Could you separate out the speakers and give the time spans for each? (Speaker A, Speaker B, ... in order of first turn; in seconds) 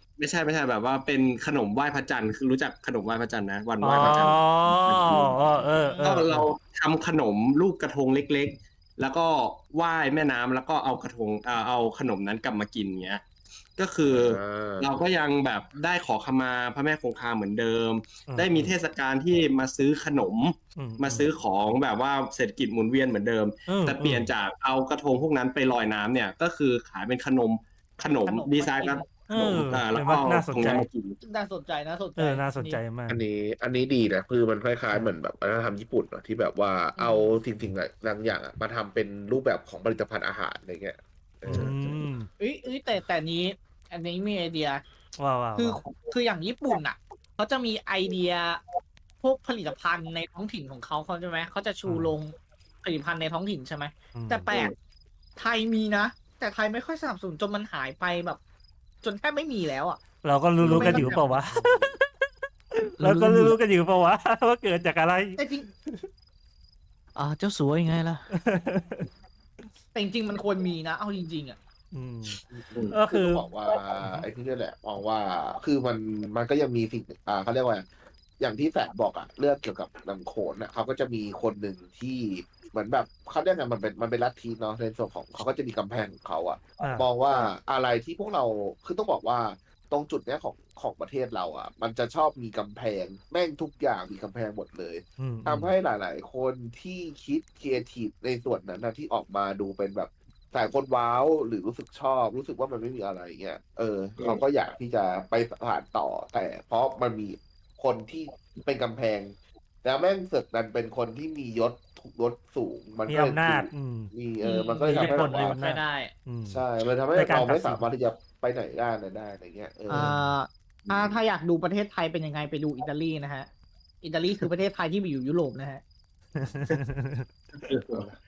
Speaker A: 0.2-5.4, 6.0-31.2, 60.6-61.1, 127.5-128.0
Speaker B: 3.8-6.5, 18.3-18.7, 20.8-21.3, 23.7-24.3, 29.3-30.9, 32.2-33.2, 41.5-42.3, 45.2-45.8, 51.9-52.2, 54.1-54.5, 60.2-66.1, 68.3-69.1, 71.9-74.2, 86.8-87.1, 95.2-95.7, 113.1-114.1, 114.9-116.6, 117.2-117.8, 119.9-120.3, 126.4-127.3
Speaker C: 5.4-6.1, 28.1-29.1, 31.2-32.8, 37.0-37.4, 42.4-44.8, 45.6-48.6, 49.2-54.7, 55.4-58.4, 59.0-60.0, 60.7-61.4, 63.0-63.5, 65.4-65.7, 67.2-68.3, 69.9-71.6, 114.4-116.1, 119.9-123.5, 124.0-125.8
Speaker D: 14.0-14.9, 33.1-42.1, 61.5-62.0, 72.5-77.9, 78.4-115.6, 116.5-120.1, 127.9-128.2